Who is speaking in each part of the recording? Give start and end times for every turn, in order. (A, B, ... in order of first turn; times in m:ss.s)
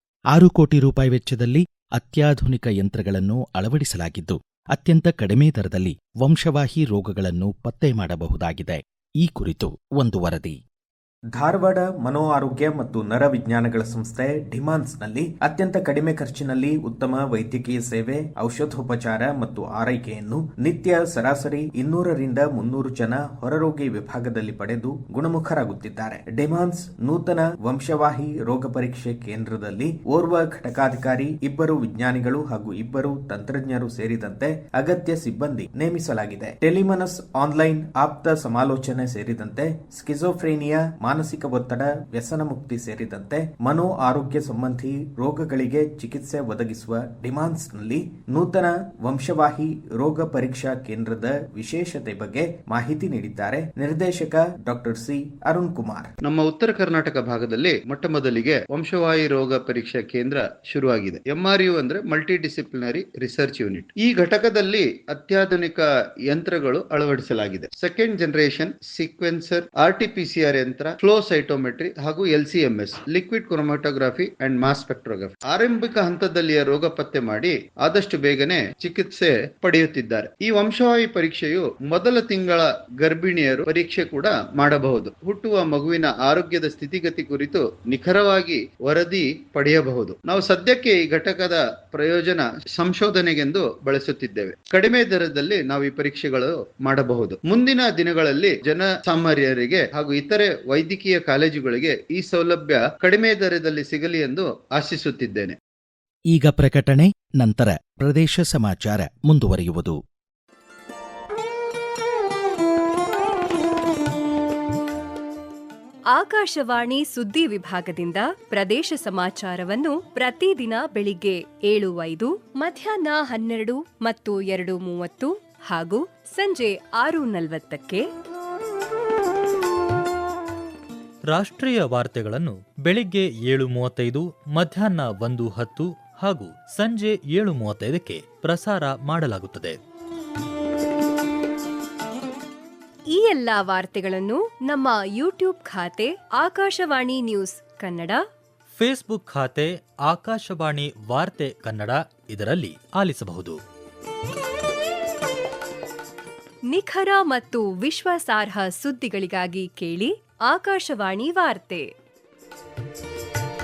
0:00.3-0:10.6 A
0:11.4-0:56.1 B
0:56.2-1:45.6 C
1:46.3-1:50.0 A
1:56.1-2:08.1 D
2:11.3-2:19.8 E
2:23.1-2:28.2 D
2:28.8-2:33.6 E
2:36.7-2:41.9 D